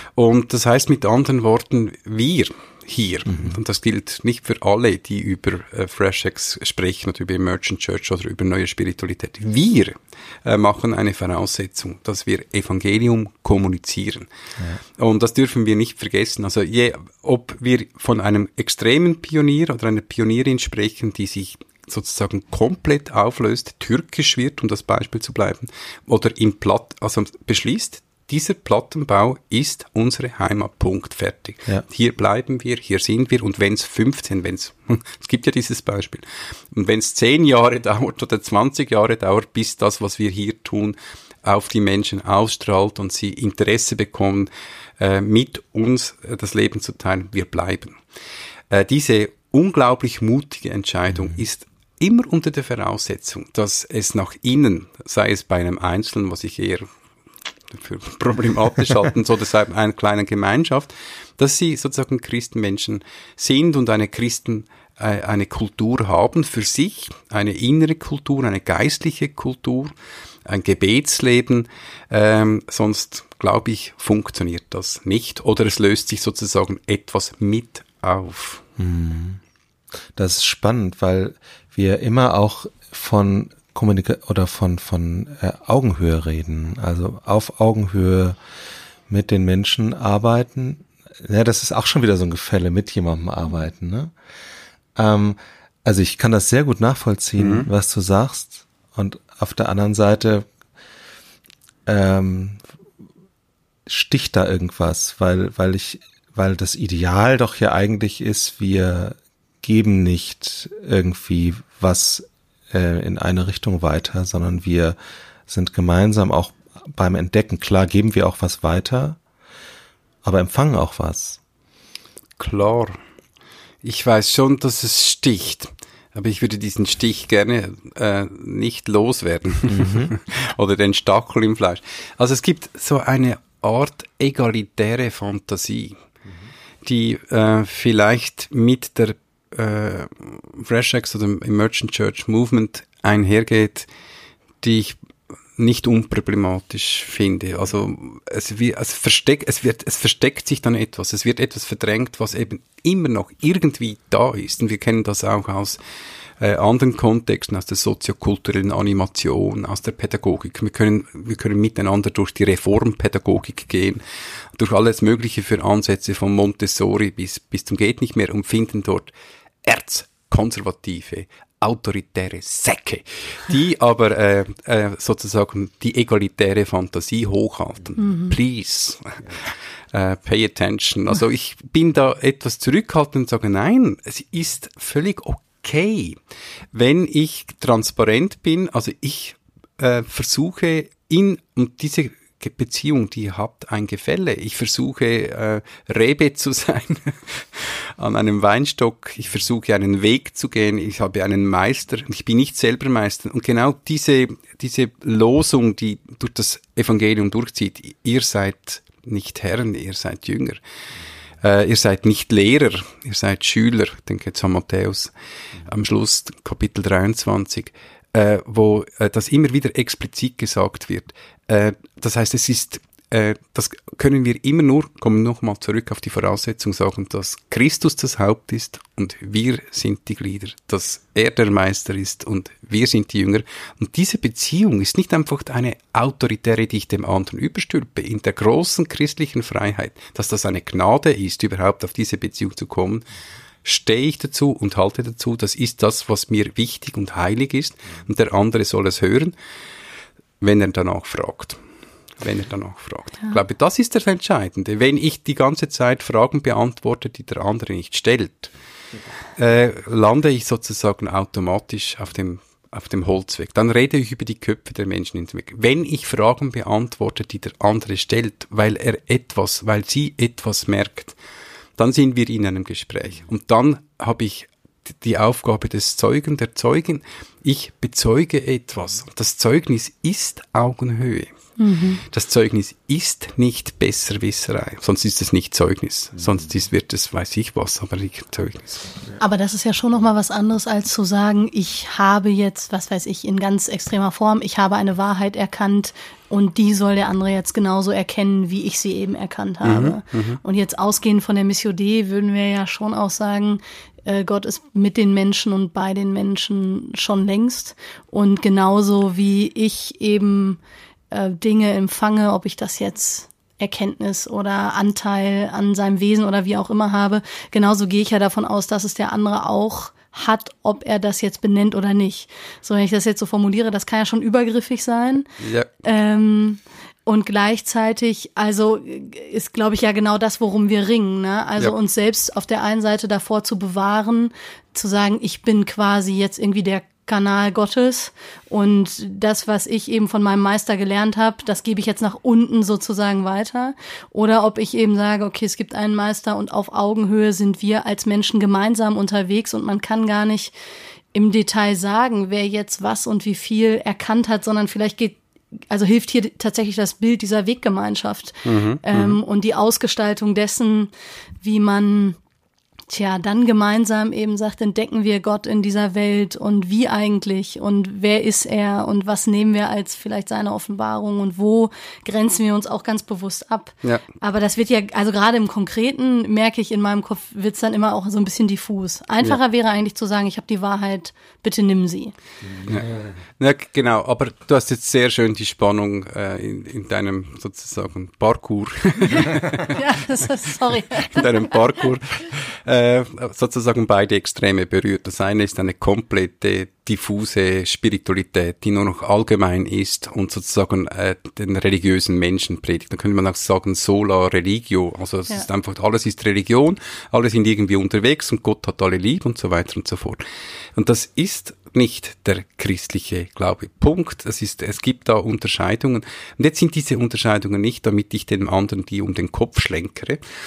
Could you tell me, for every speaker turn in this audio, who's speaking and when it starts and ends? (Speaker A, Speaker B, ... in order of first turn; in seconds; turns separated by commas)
Speaker A: 0.2-14.3, Speaker B: 3.3-3.6, Speaker A: 15.0-48.0, Speaker A: 48.7-56.9, Speaker A: 57.7-69.9, Speaker A: 70.5-78.6, Speaker B: 78.8-79.4, Speaker B: 80.2-88.4, Speaker B: 89.1-94.1, Speaker B: 95.0-100.5, Speaker A: 97.4-97.7, Speaker B: 101.9-102.6, Speaker B: 103.9-115.0, Speaker B: 115.5-119.2, Speaker B: 120.2-121.4, Speaker A: 122.4-123.0, Speaker A: 123.8-136.0, Speaker B: 129.7-130.1, Speaker A: 136.8-143.9, Speaker A: 144.6-145.0, Speaker A: 145.6-155.8, Speaker A: 156.4-164.0, Speaker A: 164.6-169.1, Speaker A: 169.6-186.2, Speaker C: 178.0-178.4, Speaker A: 186.7-210.6, Speaker A: 211.4-243.1, Speaker A: 243.6-249.3, Speaker A: 250.4-251.6, Speaker A: 252.2-258.5, Speaker A: 259.4-271.2, Speaker A: 271.8-281.3, Speaker C: 281.6-282.0, Speaker A: 282.0-288.9, Speaker C: 289.2-310.6, Speaker A: 299.6-300.4, Speaker C: 311.1-325.3, Speaker A: 325.4-325.7, Speaker C: 325.8-350.5, Speaker C: 351.1-355.2, Speaker C: 355.7-362.2, Speaker A: 358.4-359.2, Speaker C: 362.9-382.1, Speaker A: 382.7-389.8, Speaker C: 389.2-391.6, Speaker A: 390.9-410.2, Speaker A: 410.8-420.2